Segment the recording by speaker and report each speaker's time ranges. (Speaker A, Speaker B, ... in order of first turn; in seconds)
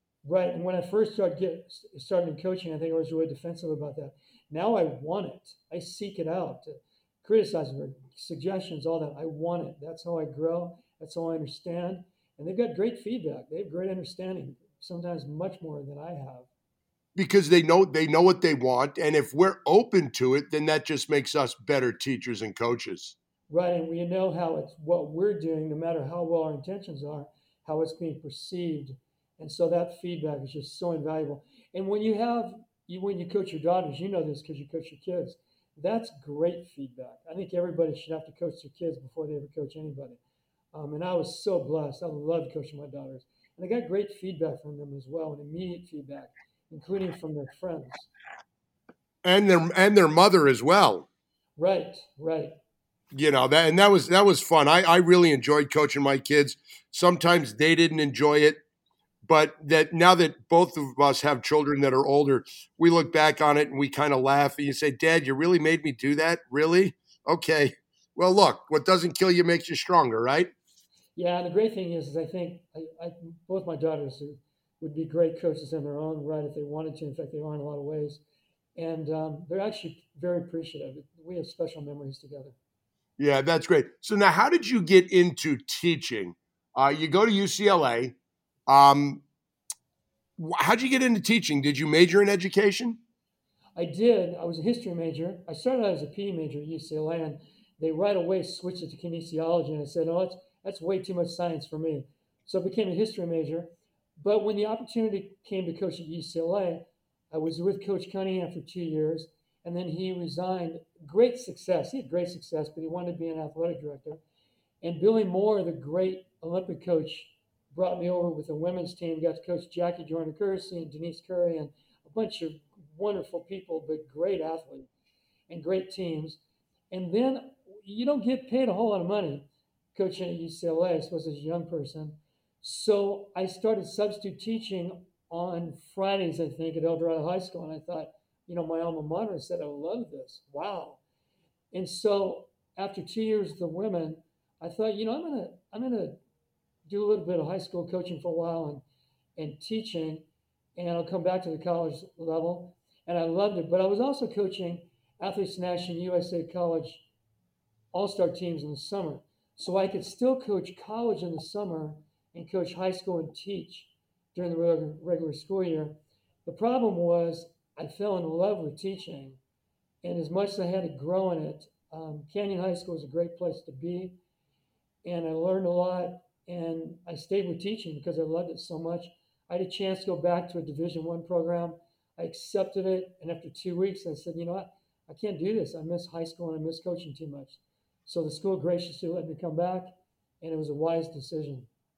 Speaker A: 0.2-16.5, 23.5-40.2, 40.7-48.1, 51.6-52.5, 71.2-78.2, 78.8-82.6, 93.8-114.2, 114.8-124.9, 125.5-126.4, 126.9-141.0, 141.7-146.2, 146.8-148.8, 149.4-150.2, 150.8-157.0, 157.9-169.4, 170.0-174.2, 175.0-191.7
Speaker B: 17.1-23.1, 49.2-51.1, 53.1-58.6, 59.2-70.5, 83.2-88.1, 88.7-89.2, 90.4-93.0